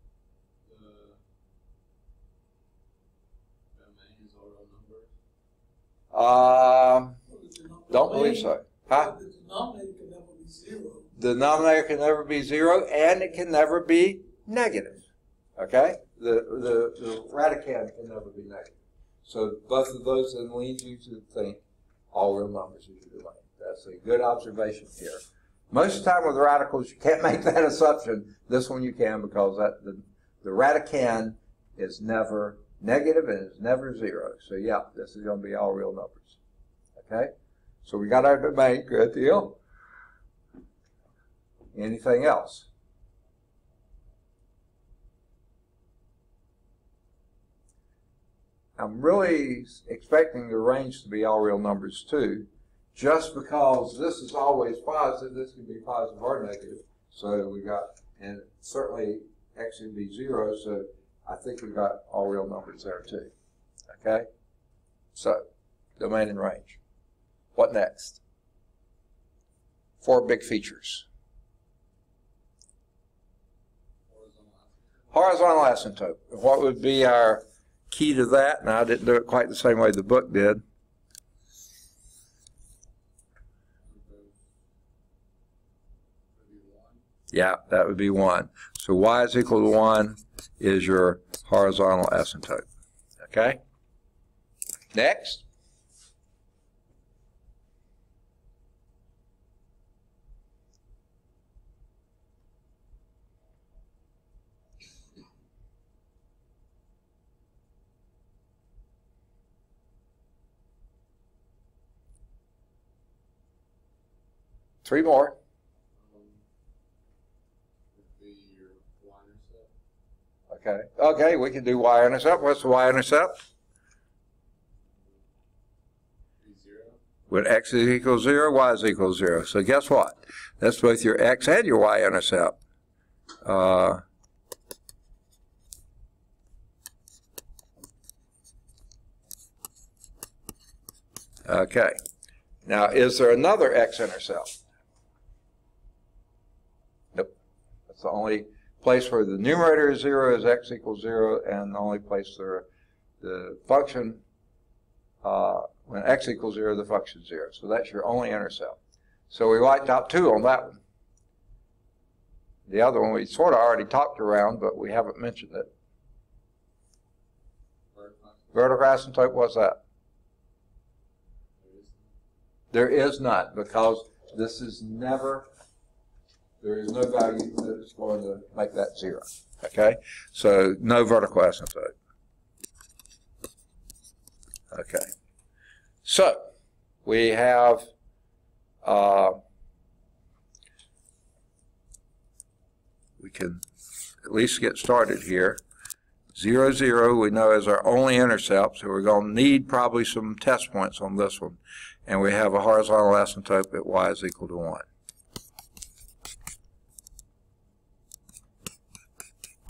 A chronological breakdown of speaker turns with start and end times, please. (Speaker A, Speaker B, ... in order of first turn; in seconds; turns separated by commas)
Speaker A: 0.6-1.2, Speaker A: 3.7-5.1, Speaker B: 6.1-7.2, Speaker C: 7.3-11.1, Speaker B: 7.9-9.1, Speaker B: 11.2-21.6, Speaker B: 22.1-36.4, Speaker B: 37.0-37.3, Speaker B: 37.8-39.6, Speaker B: 41.7-42.7, Speaker B: 48.8-63.3, Speaker B: 63.9-64.3, Speaker B: 65.2-65.5, Speaker B: 66.0-66.8, Speaker B: 67.5-68.2, Speaker B: 70.0-71.1, Speaker A: 74.1-75.3, Speaker B: 75.1-80.6, Speaker A: 83.8-84.4, Speaker A: 86.3-87.0, Speaker B: 87.3-92.7, Speaker B: 93.2-93.6, Speaker B: 94.9-95.5, Speaker B: 114.8-115.4, Speaker A: 115.9-116.4, Speaker A: 117.9-119.7, Speaker B: 120.5-123.4, Speaker A: 126.4-127.0, Speaker B: 127.3-132.6, Speaker B: 133.4-134.0, Speaker B: 141.4-142.0, Speaker B: 142.7-144.6, Speaker B: 147.9-152.7, Speaker B: 153.2-154.2, Speaker B: 155.2-158.8, Speaker B: 159.3-160.8, Speaker B: 162.7-165.7, Speaker A: 167.9-168.5, Speaker B: 168.5-169.8, Speaker A: 171.6-172.1, Speaker B: 172.7-175.5, Speaker B: 176.6-181.9, Speaker B: 184.7-185.1, Speaker B: 186.0-186.5, Speaker B: 187.1-187.9, Speaker B: 188.8-189.4, Speaker B: 193.2-193.6, Speaker B: 194.2-195.6, Speaker B: 196.3-204.9